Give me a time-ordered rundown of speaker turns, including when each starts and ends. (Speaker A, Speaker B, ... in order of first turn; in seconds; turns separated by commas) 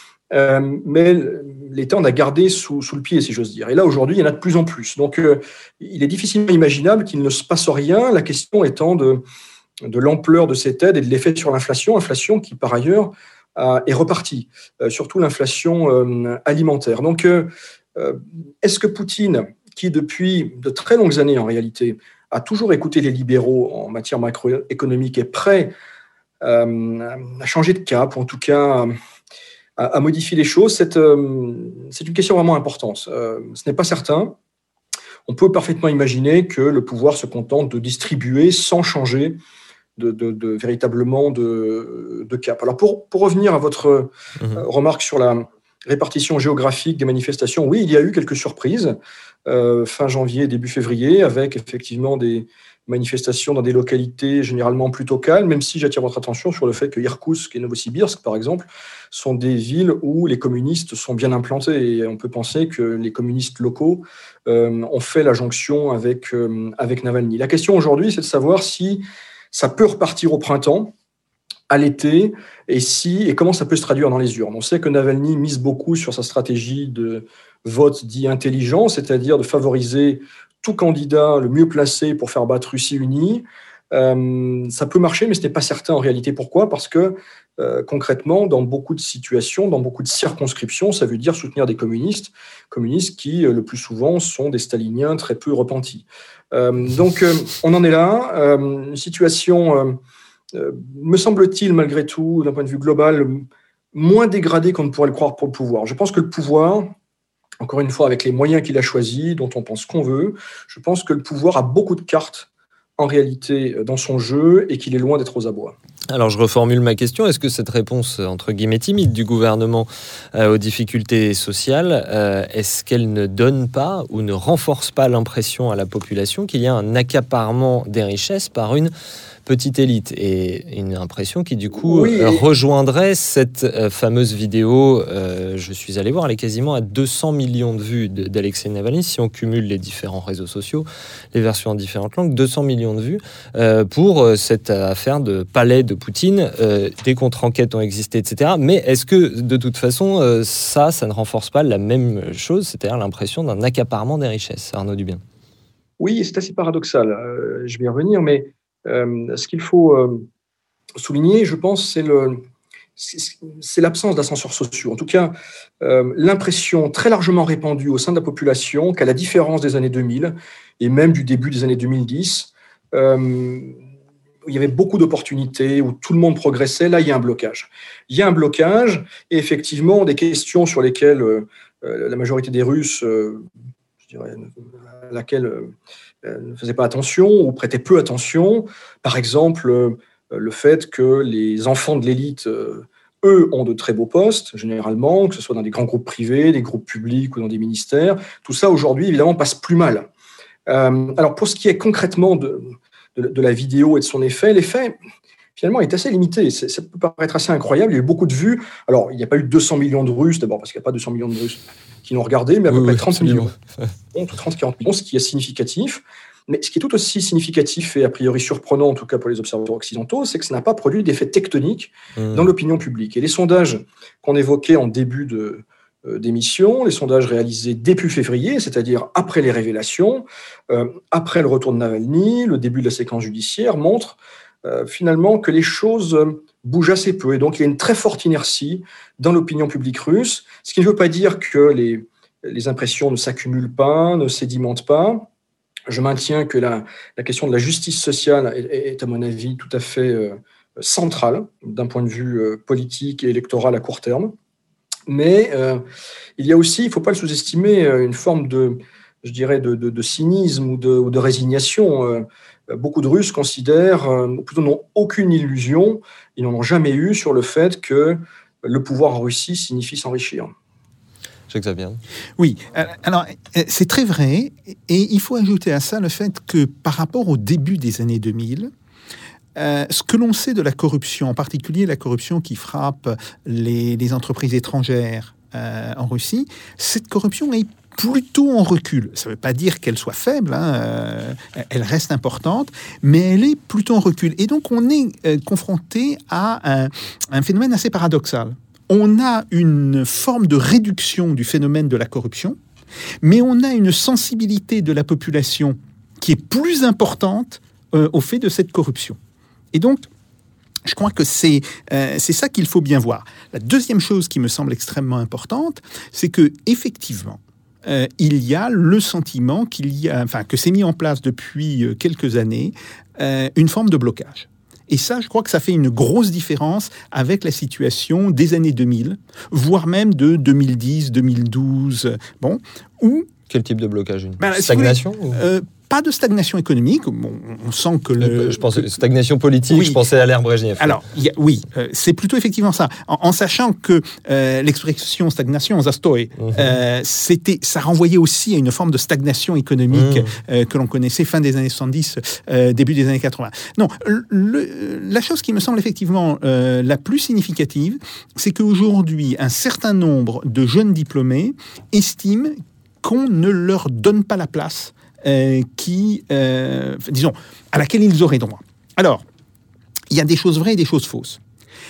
Speaker A: 0.3-9.2, Speaker A: 9.8-25.7, Speaker A: 26.4-28.9, Speaker A: 29.8-34.4, Speaker A: 35.3-39.4, Speaker A: 40.0-70.9, Speaker B: 44.4-44.6, Speaker A: 71.7-100.0, Speaker A: 100.5-106.9, Speaker A: 107.6-115.8, Speaker B: 116.1-128.9, Speaker B: 129.4-155.2, Speaker A: 131.8-132.4, Speaker A: 156.0-160.2, Speaker A: 161.0-162.4, Speaker A: 163.0-173.8, Speaker A: 174.4-183.4, Speaker A: 184.1-184.5, Speaker A: 185.0-185.7, Speaker A: 186.2-200.1, Speaker A: 200.7-204.9, Speaker A: 205.6-213.5, Speaker B: 212.7-213.9, Speaker A: 214.1-245.3, Speaker B: 222.2-222.5, Speaker A: 245.9-254.3, Speaker A: 255.1-255.8, Speaker A: 256.4-270.5, Speaker B: 271.5-272.0, Speaker C: 272.4-278.7, Speaker C: 279.5-302.6, Speaker C: 303.2-309.2, Speaker C: 309.7-310.1, Speaker C: 310.8-333.3, Speaker B: 333.5-335.4, Speaker C: 334.4-338.9, Speaker B: 338.2-341.0, Speaker C: 339.7-340.0, Speaker C: 340.8-369.2, Speaker B: 346.4-346.8, Speaker B: 349.9-350.3, Speaker C: 370.1-371.4